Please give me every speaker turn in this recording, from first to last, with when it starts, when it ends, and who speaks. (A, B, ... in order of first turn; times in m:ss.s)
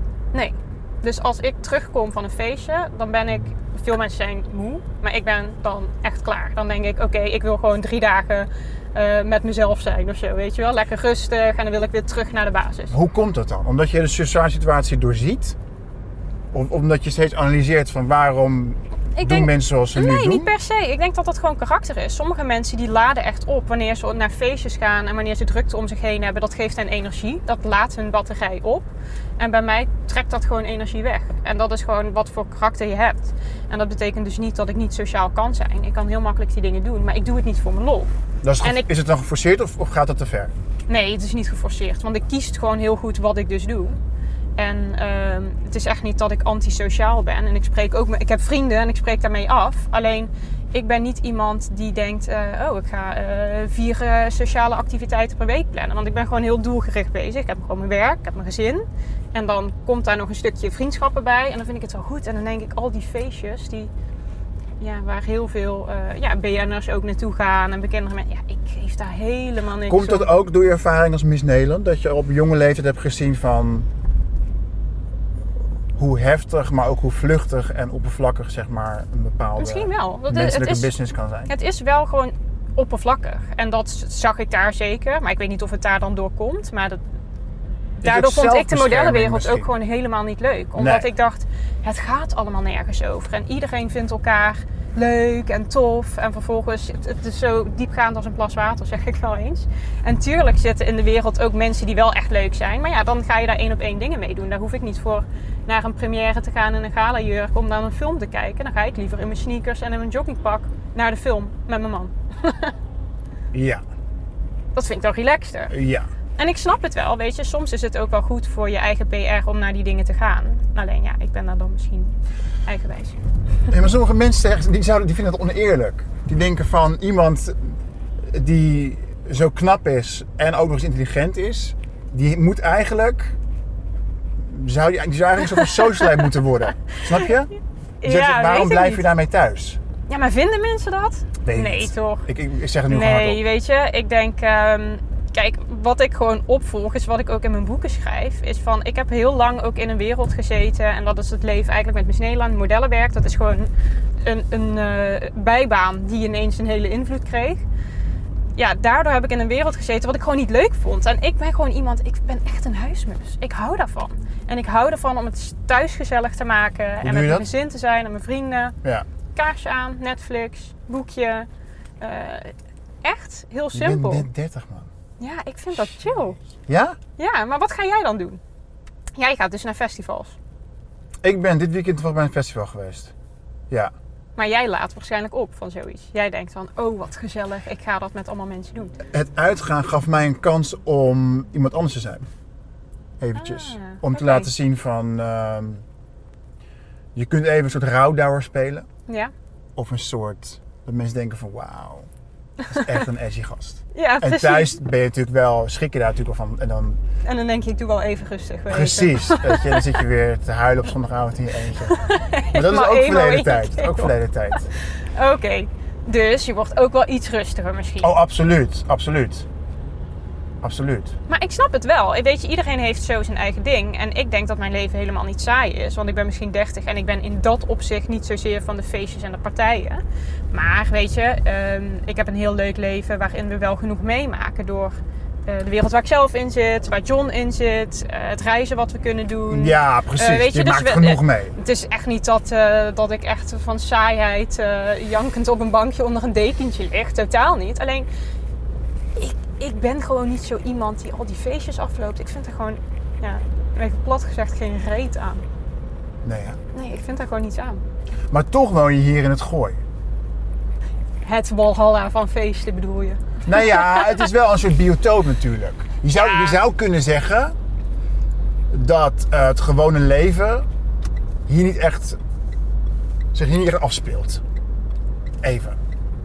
0:00.3-0:12.9 A
0:12.9-0:15.6 B
0:16.5-0:20.5 B
0:19.2-0:28.8 A
0:29.4-0:38.1 A
0:38.4-0:40.5 B
0:38.6-0:38.9 A
0:40.9-0:44.0 A
0:44.6-1:03.9 A
1:04.8-1:10.3 A
1:09.9-1:13.9 B
1:15.9-1:21.5 B
1:19.6-1:20.9 A
1:21.5-1:27.0 A
1:28.0-1:52.7 A
1:28.0-1:29.7 B
1:30.8-1:31.1 B
1:53.5-1:53.8 B
1:54.7-1:55.7 A
1:55.7-1:56.1 B
1:56.4-2:02.1 A
2:02.6-2:03.2 A
2:03.7-2:13.4 B
2:14.4-2:17.5 B
2:15.5-2:16.2 A
2:16.9-2:17.3 A
2:18.0-2:19.0 A
2:18.0-2:19.8 B
2:20.1-2:22.2 A
2:21.4-2:23.4 B
2:22.9-2:33.7 A
2:34.2-2:37.6 A
2:38.6-2:48.8 A
2:47.0-2:47.5 B
2:49.3-2:51.5 A
2:52.0-2:54.3 A
2:53.7-2:54.9 B
2:55.2-2:56.4 A
2:56.7-2:57.0 B
2:57.2-2:58.4 A
2:59.2-3:00.4 A
3:01.2-3:03.1 B
3:04.4-3:09.0 A
3:09.1-3:12.3 B
3:13.2-3:15.8 B
3:13.4-3:14.5 A
3:17.1-3:18.9 B
3:19.8-3:22.1 B
3:22.7-3:27.0 B
3:23.9-3:24.8 A
3:27.2-3:30.0 A
3:28.7-3:32.0 B
3:31.9-3:38.1 A
3:32.5-3:34.7 B
3:38.0-3:39.5 B
3:40.6-3:41.2 B
3:41.3-3:50.0 A
3:50.5-4:08.1 A
3:59.5-4:01.5 B
4:09.2-4:15.4 A
4:16.2-4:16.6 B
4:16.7-4:17.8 A
4:18.3-4:19.8 B
4:21.2-4:24.2 A
4:23.4-4:27.5 B
4:26.1-4:26.6 A
4:28.7-4:30.7 B
4:31.5-4:32.2 B
4:33.3-4:34.4 B
4:35.4-4:35.8 B